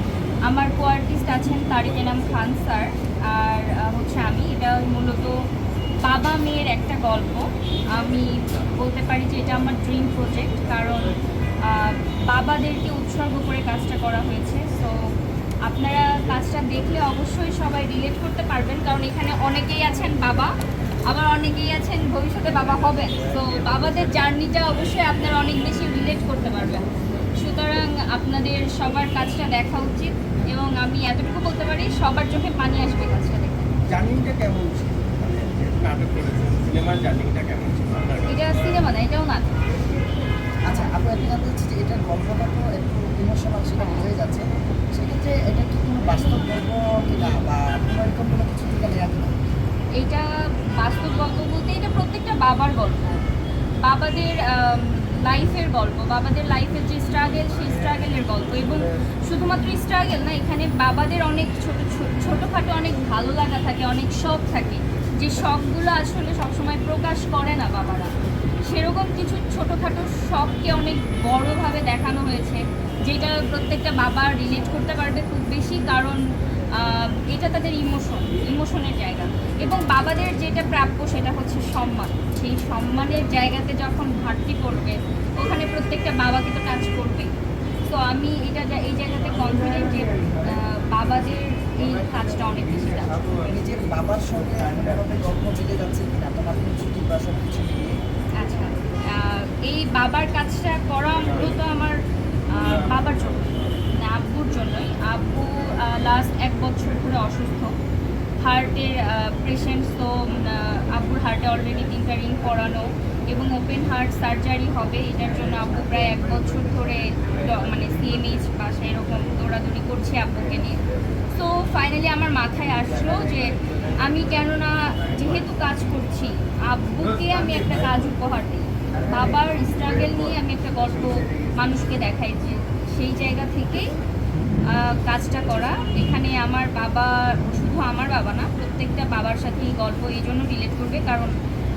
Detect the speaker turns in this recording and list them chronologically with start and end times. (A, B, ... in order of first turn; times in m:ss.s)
0:00.5-0:05.4 A
0:06.0-0:15.0 A
0:15.6-0:20.5 A
0:21.1-0:33.7 A
0:33.9-0:38.5 B
0:38.3-0:39.6 A
0:40.7-0:49.3 C
0:43.8-0:44.1 A
0:46.1-0:46.5 A
0:50.0-0:53.2 A
0:53.8-1:27.3 A
1:27.9-1:33.3 A
1:33.4-1:38.0 C
1:38.4-1:47.8 A
1:48.4-2:00.8 A
2:01.3-2:13.9 A
2:14.7-2:21.3 A